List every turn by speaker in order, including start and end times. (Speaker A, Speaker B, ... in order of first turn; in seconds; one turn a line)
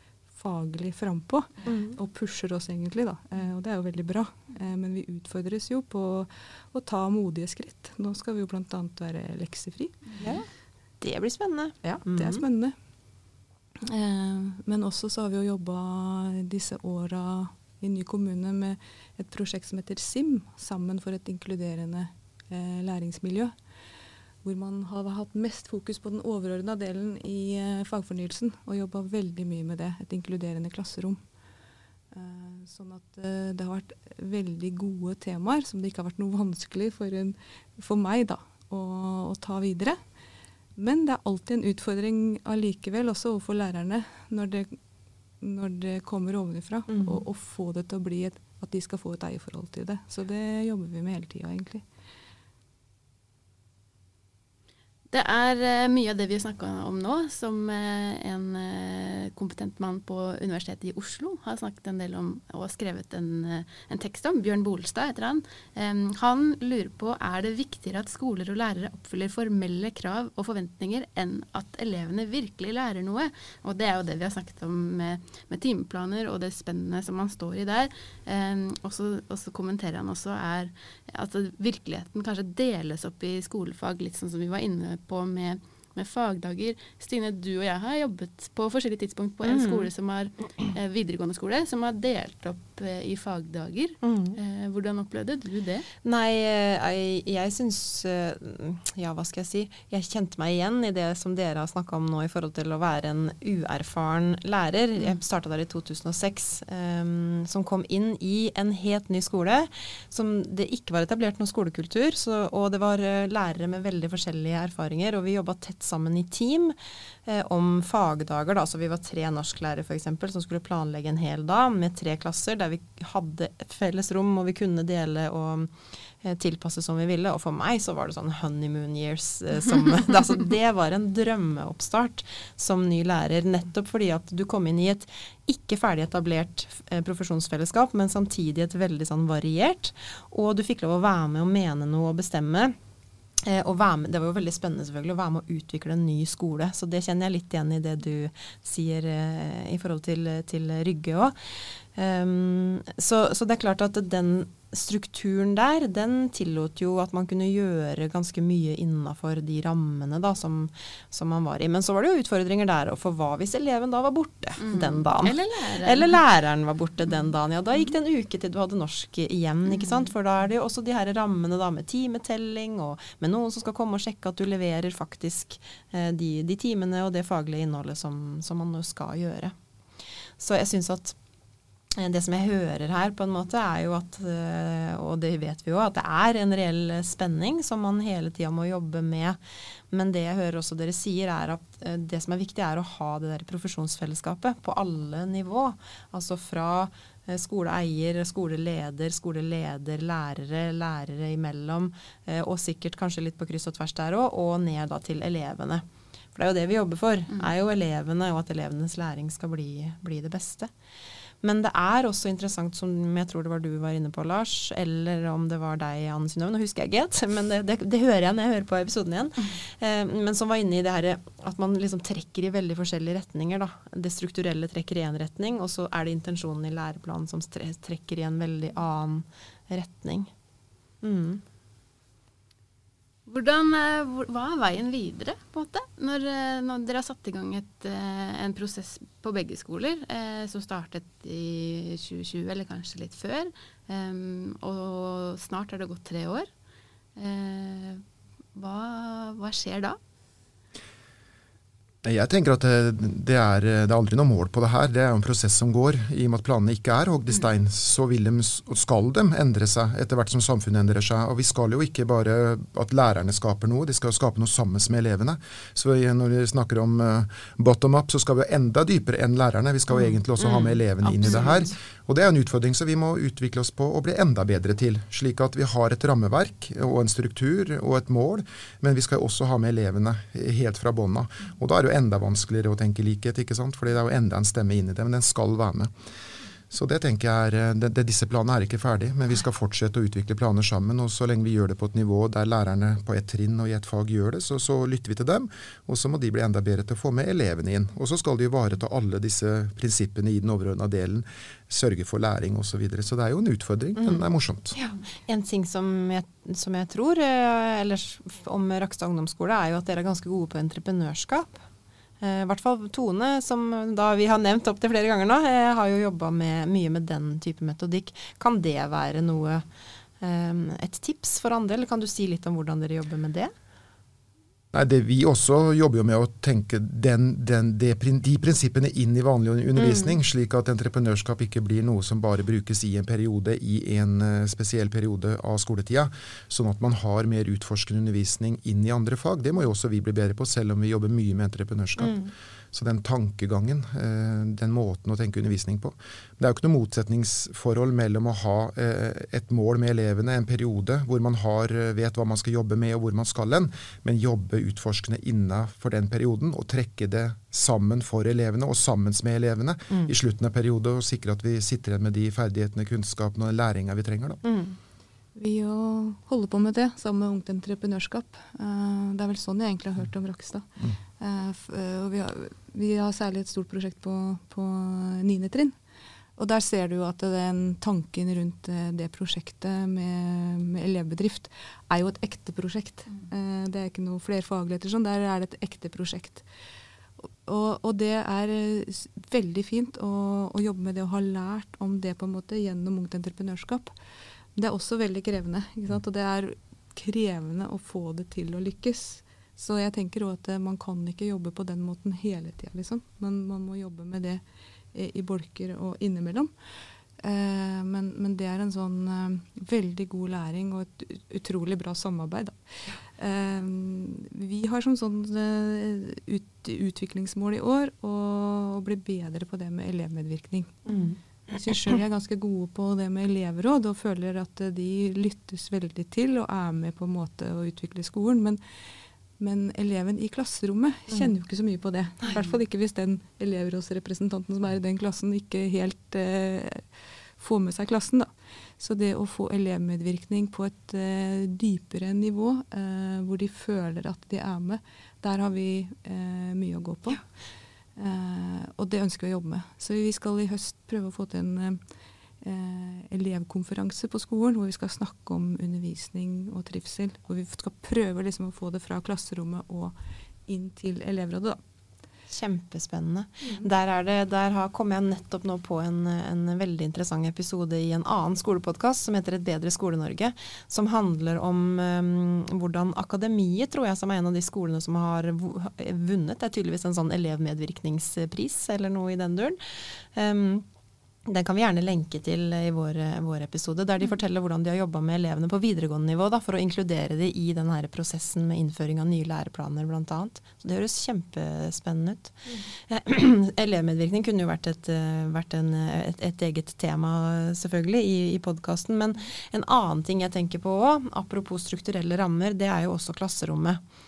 Speaker A: 0.3-10.2
Speaker B: 1.7-1.9
Speaker B: 10.2-10.4
Speaker B: 11.0-12.4
Speaker A: 11.8-12.8
Speaker A: 13.8-23.5
Speaker A: 24.4-31.2
Speaker A: 32.1-40.0
Speaker A: 40.8-44.8
Speaker A: 45.4-51.8
Speaker B: 46.9-47.2
Speaker C: 55.1-95.9
Speaker B: 89.4-89.9
Speaker B: 94.0-94.4
Speaker B: 96.0-142.7
Speaker B: 143.4-179.5
Speaker C: 164.6-166.2
Speaker B: 180.4-181.2
Speaker B: 182.0-189.4
Speaker B: 189.9-205.8
Speaker B: 206.3-210.7
Speaker B: 211.4-230.3
Speaker B: 231.0-231.4
Speaker C: 233.3-246.5
Speaker C: 247.2-248.0
Speaker C: 248.5-250.0
Speaker D: 252.0-285.9
Speaker B: 269.9-271.7
Speaker D: 286.7-304.7
Speaker B: 304.0-311.6
Speaker B: 312.2-319.6
Speaker B: 320.2-323.5
Speaker D: 324.7-342.2
Speaker B: 329.8-330.1
Speaker B: 342.0-342.3
Speaker D: 342.7-364.4
Speaker B: 364.4-364.8
Speaker A: 365.4-375.8
Speaker A: 376.4-386.4
Speaker A: 387.4-393.9
Speaker A: 394.5-404.4
Speaker A: 404.9-406.5
Speaker A: 407.2-420.9
Speaker B: 420.9-421.2
Speaker A: 421.5-428.6
Speaker A: 429.4-447.2
Speaker A: 448.0-451.8
Speaker A: 452.4-459.9
Speaker A: 460.5-461.6
Speaker B: 462.3-480.6
Speaker B: 481.2-503.8